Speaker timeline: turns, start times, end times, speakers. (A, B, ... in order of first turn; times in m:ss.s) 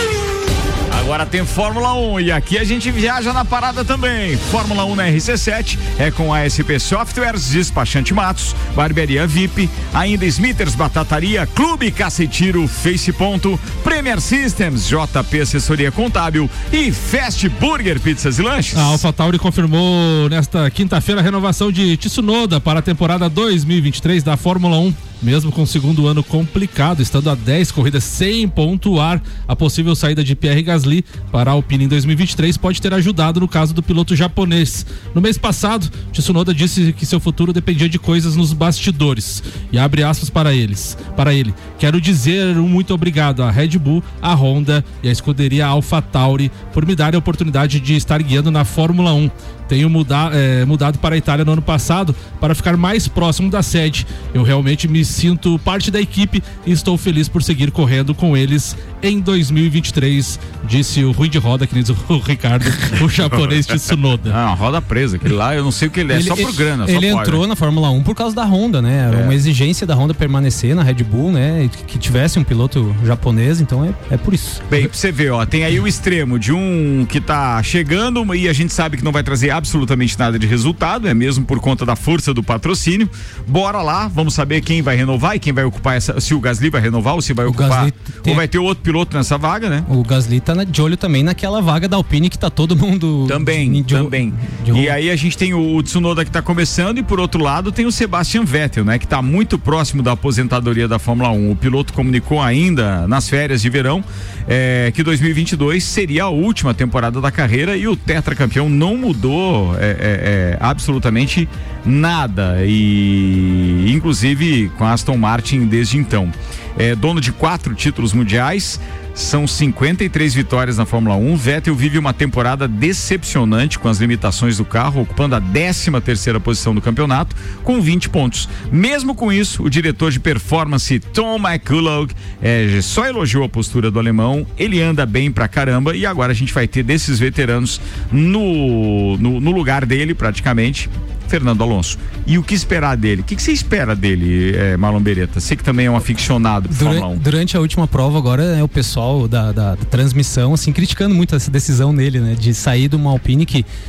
0:00.9-0:19.0 A
0:18.7-1:04.4 B
1:04.3-1:07.4 A
1:06.1-1:14.6 C
1:09.1-1:09.3 A
1:14.7-1:29.9 A
1:27.4-1:28.4 C
1:29.9-1:34.9 C
1:33.3-2:27.2 A
2:26.7-2:33.7 C